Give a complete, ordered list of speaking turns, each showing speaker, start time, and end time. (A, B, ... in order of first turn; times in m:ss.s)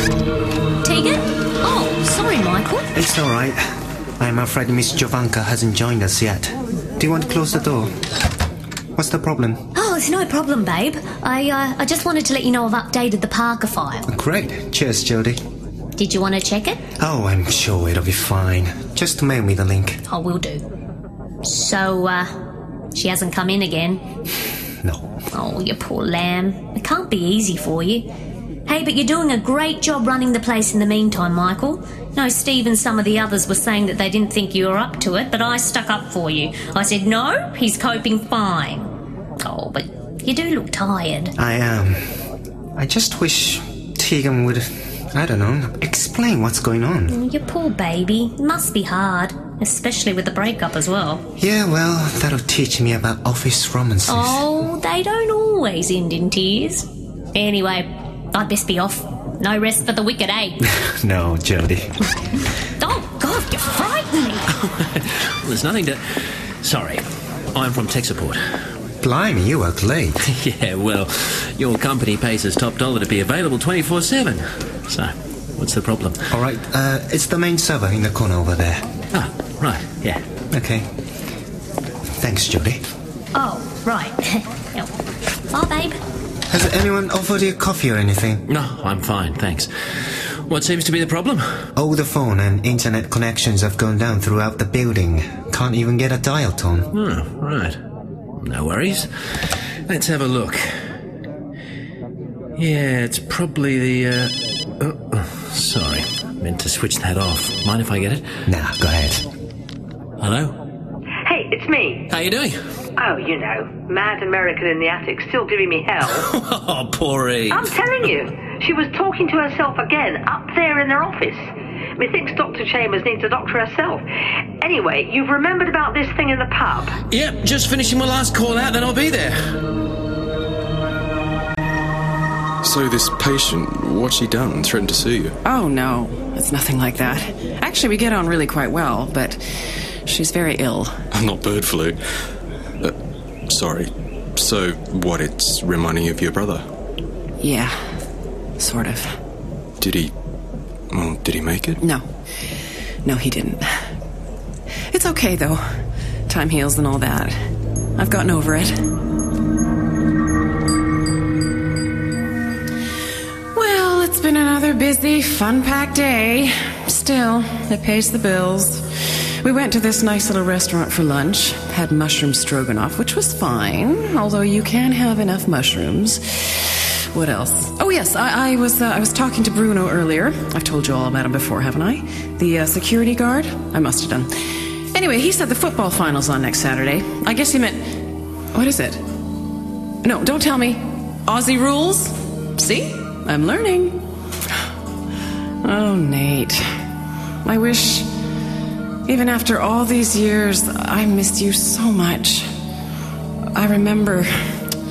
0:00.8-0:02.9 A
0:02.9-0:03.6 B
0:04.2-0:07.9 B
0:09.0-0:09.6 B
0:09.7-0:14.0 A
0:14.1-0:15.4 B
0:16.0-0:16.8 A
0:17.0-0:20.0 B
0:20.1-0:20.6 A
0:21.4-0:22.3 A
0:22.9-0:24.0 A
0:24.8-0:25.1 B
0:25.3-0:28.1 A
0:28.7-0:38.9 A
0:39.4-0:41.3 A
0:41.4-0:42.0 B
0:42.8-0:47.2 B
0:47.1-0:51.2 A
0:51.4-0:54.4 B
0:54.1-1:00.6 A
1:00.8-1:01.9 B
1:02.8-1:04.4 A
1:05.4-1:06.0 C
1:06.6-1:08.4 C
1:09.0-1:10.2 B
1:10.3-1:16.2 C
1:16.3-1:18.8 B
1:19.1-1:20.2 C
1:20.5-1:20.8 B
1:22.2-1:22.8 B
1:23.3-1:24.9 A
1:25.5-1:26.0 A
1:26.5-1:28.4 B
1:28.5-1:29.7 C
1:30.5-1:31.5 C
1:31.8-1:36.9 B
1:36.9-1:37.8 C
1:38.4-1:39.1 C
1:39.9-1:40.6 C
1:42.6-1:48.2 C
1:48.5-1:49.2 B
1:50.2-1:50.5 C
1:51.2-1:52.0 D
1:52.1-1:52.6 C
1:53.0-1:56.3 D
1:56.1-1:57.7 C
1:57.5-2:01.4 D
2:02.0-2:04.0 D
2:04.6-2:06.9 D
2:07.1-2:09.3 C
2:12.6-2:15.4 E
2:15.4-2:19.4 F
2:20.0-2:20.9 F
2:21.1-2:22.0 E
2:23.5-2:26.6 E
2:27.4-2:27.7 F
2:28.6-2:29.1 F
2:29.8-2:30.1 E
2:30.9-2:31.8 E
2:31.8-2:32.0 F
2:33.0-2:33.6 F
2:34.9-2:35.7 F
2:36.3-2:37.4 F
2:38.0-2:38.8 F
2:43.5-2:48.8 F
2:49.4-3:04.3 F
3:04.9-3:08.0 F
3:08.5-3:09.0 F
3:10.0-3:14.0 F
3:15.6-3:16.6 F
3:17.4-3:18.1 F
3:19.1-3:22.5 F
3:23.5-3:24.4 F